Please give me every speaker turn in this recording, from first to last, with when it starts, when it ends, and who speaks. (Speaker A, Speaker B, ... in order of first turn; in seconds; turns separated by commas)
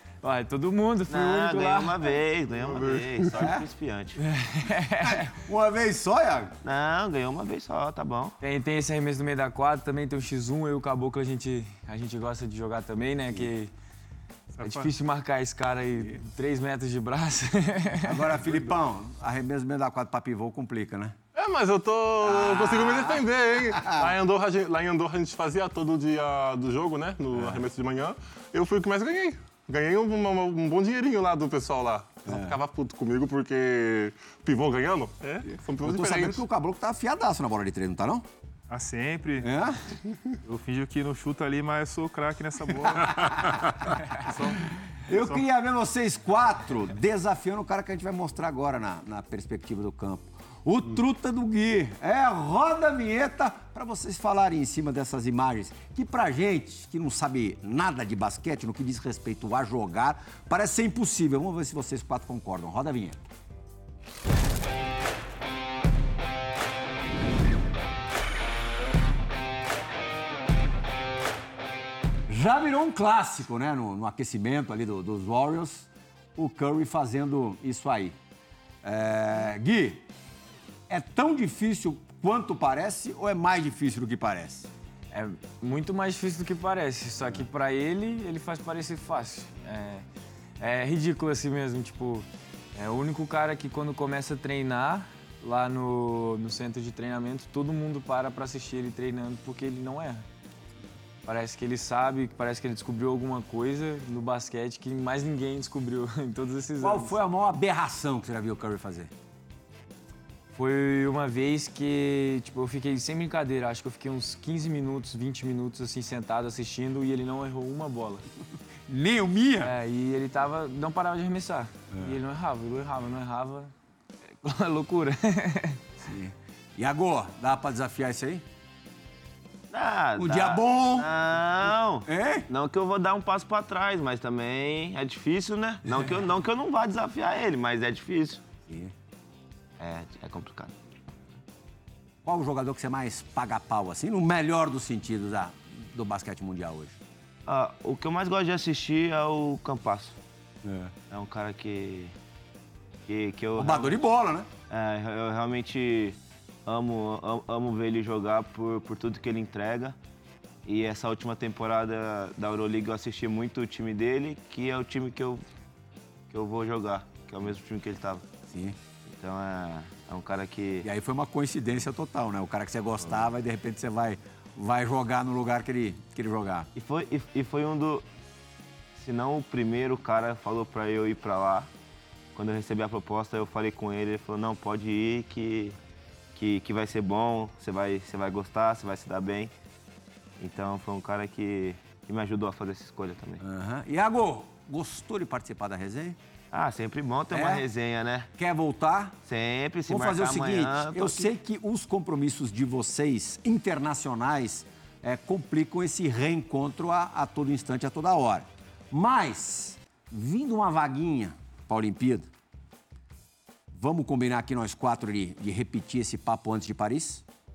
Speaker A: 0.2-2.0, Speaker B: 1.1-4.2, Speaker C: 2.6-3.5, Speaker D: 3.3-3.6, Speaker A: 4.2-5.3, Speaker D: 5.0-6.5, Speaker B: 6.6-8.4, Speaker A: 8.4-13.7, Speaker E: 14.5-14.9, Speaker A: 14.6-18.3, Speaker D: 18.0-21.2, Speaker C: 21.3-36.4, Speaker D: 22.2-24.1, Speaker D: 27.3-27.6, Speaker D: 32.3-32.6, Speaker D: 35.8-38.2, Speaker E: 38.7-39.5, Speaker D: 39.4-39.8, Speaker E: 40.4-45.3, Speaker D: 43.1-43.6, Speaker D: 44.7-63.2, Speaker D: 72.3-78.2, Speaker D: 78.8-80.0, Speaker D: 80.9-84.7, Speaker A: 85.1-90.0, Speaker A: 90.6-100.2, Speaker A: 101.2-107.2, Speaker D: 106.8-109.1, Speaker A: 110.5-118.3, Speaker D: 118.9-119.7, Speaker A: 119.6-123.7, Speaker D: 121.9-122.2, Speaker A: 124.4-125.8, Speaker D: 126.0-128.4, Speaker B: 129.7-138.4, Speaker D: 130.2-131.1, Speaker D: 131.6-132.5, Speaker D: 138.7-138.9, Speaker B: 139.8-140.7, Speaker D: 142.2-147.0, Speaker B: 147.4-150.2, Speaker D: 150.6-150.9, Speaker B: 151.1-152.2, Speaker B: 153.1-154.0, Speaker D: 153.6-154.5, Speaker B: 154.7-160.0, Speaker B: 160.6-165.4, Speaker B: 166.3-168.3, Speaker D: 168.5-168.8, Speaker B: 169.1-170.9, Speaker D: 170.8-176.7, Speaker B: 176.7-178.1, Speaker B: 178.9-181.7, Speaker B: 182.3-185.8, Speaker B: 186.3-189.5, Speaker B: 190.4-193.4, Speaker D: 193.4-196.2, Speaker B: 196.5-198.3, Speaker D: 197.3-197.7, Speaker D: 198.4-199.2, Speaker B: 199.2-201.3, Speaker D: 199.9-212.3, Speaker D: 213.7-217.2